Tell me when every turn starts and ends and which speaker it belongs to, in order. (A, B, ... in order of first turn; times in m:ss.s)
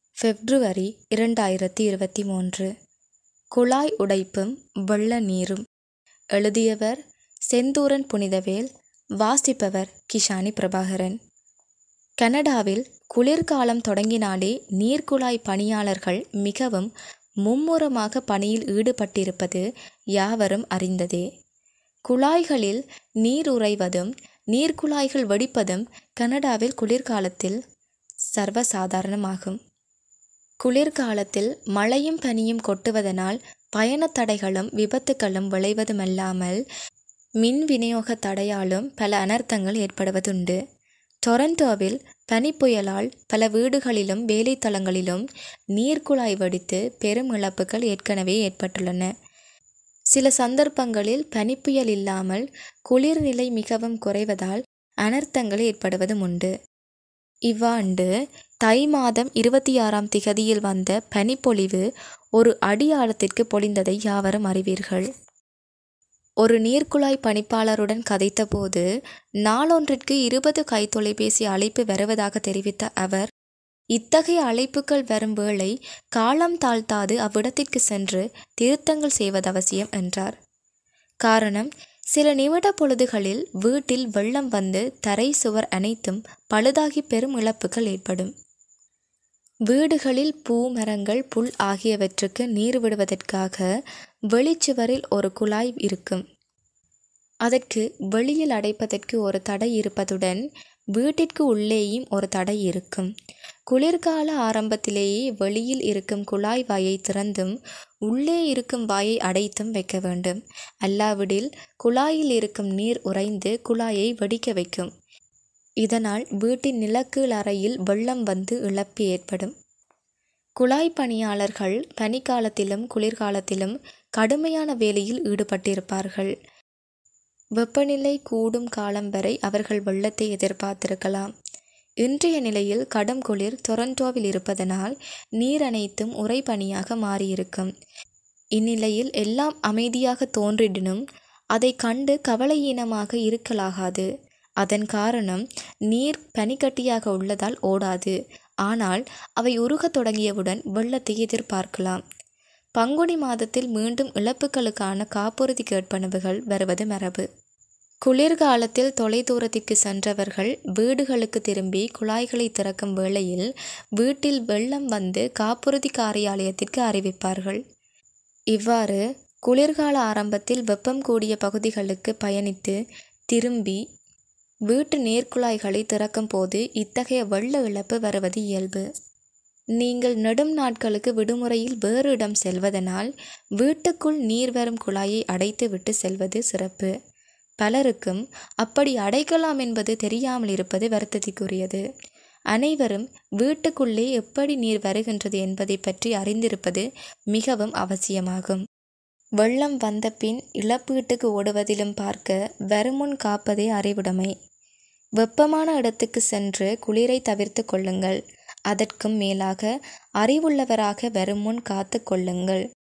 0:00.2-0:02.7 A
0:03.5-0:05.6 A
0:06.3-0:07.0 A
0:07.5-0:08.7 A
0:09.2-0:11.2 A
0:12.2-0:16.9 A
0:17.4-0:19.6 A
0:20.2-0:21.2 A
0:22.1-0:27.6 A
0:28.3-0:29.6 A
0:30.6-0:36.6 A
0:37.4-0:40.6 A
0:41.3-0:49.1 A
0:50.1-0:56.5 A
0:57.5-0:58.1 A
0:58.7-1:01.8 A
1:02.4-1:05.1 A
1:06.4-1:08.8 A
1:09.4-1:13.3 A
1:13.9-1:20.3 A
1:21.2-1:28.3 A
1:29.7-1:33.7 A
1:34.3-1:36.2 A
1:37.4-1:40.4 A
1:41.0-1:43.1 A
1:43.7-1:47.6 A
1:48.1-1:54.9 A
1:55.8-1:59.5 A
2:00.6-2:06.3 A
2:07.6-2:11.3 A
2:12.0-2:17.7 A
2:18.6-2:21.0 A
2:21.5-2:24.1 A
2:24.6-2:32.0 A
2:32.8-2:37.2 A
2:38.0-2:43.5 A
2:44.0-2:47.6 A
2:48.5-2:52.8 A
2:53.3-2:53.8 A
2:54.7-2:58.8 A
2:59.8-3:06.9 A
3:07.6-3:11.8 A
3:12.5-3:18.6 A
3:19.4-3:24.3 A
3:25.2-3:28.2 A
3:28.7-3:29.7 A
3:30.2-3:32.6 A